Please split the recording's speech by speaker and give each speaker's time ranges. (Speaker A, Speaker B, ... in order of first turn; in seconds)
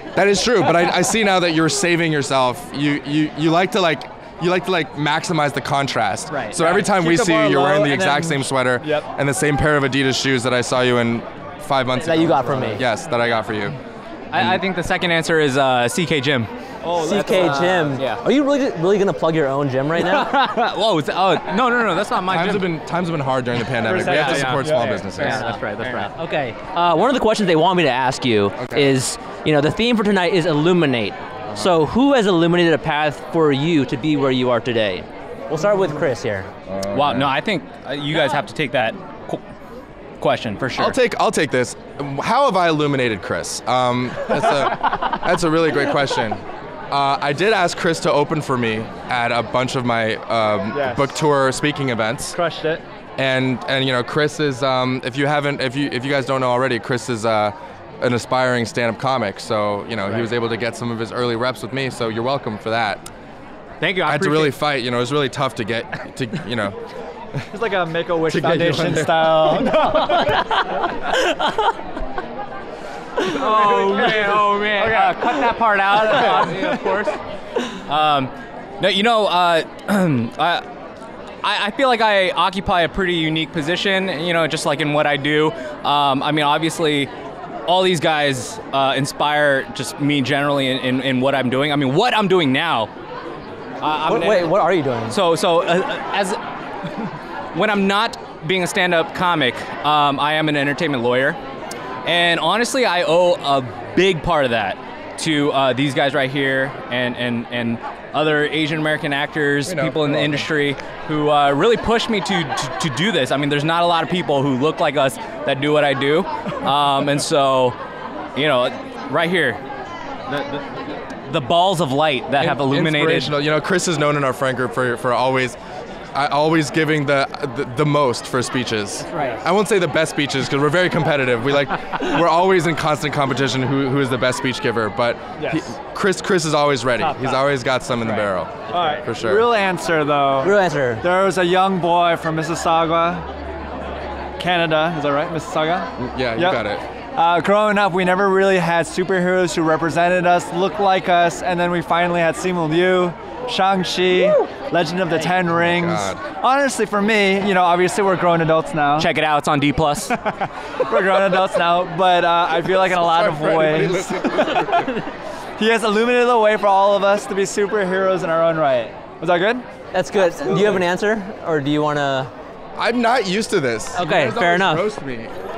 Speaker A: 0.1-13.8, 14.3-14.6, 22.3-25.5, 28.6-29.0, 36.7-37.3, 40.8-52.4, 53.2-63.0, 64.1-66.8, 68.3-69.6, 109.7-110.5, 122.4-125.6, 126.1-139.5, 146.0-146.8, 155.5-156.2, 162.7-165.0, 172.8-175.3
Speaker B: 6.4-9.1, 16.8-18.1, 23.8-25.4, 50.7-51.2, 52.3-52.8, 60.0-60.3, 67.5-70.1, 73.4-77.0, 135.4-135.7, 137.0-137.4, 138.1-143.3, 144.4-146.6, 147.2-159.1, 160.8-164.5, 165.6-169.7
Speaker C: 12.0-12.8, 16.9-20.4, 25.2-25.6, 26.1-36.5, 69.8-71.6, 94.0-95.2, 129.0-129.4, 140.4-141.1, 169.9-172.3, 173.9-174.9
Speaker D: 14.3-16.5, 17.9-18.2, 19.9-22.7, 23.9-26.2, 36.9-39.4, 40.2-41.0, 63.8-64.6, 73.2-77.2, 77.9-80.7, 81.4-87.1, 87.7-92.9, 93.8-94.6, 95.1-96.4, 97.5-101.4, 102.0-117.8, 118.4-119.6, 120.3-120.7, 121.3-123.4, 159.0-160.2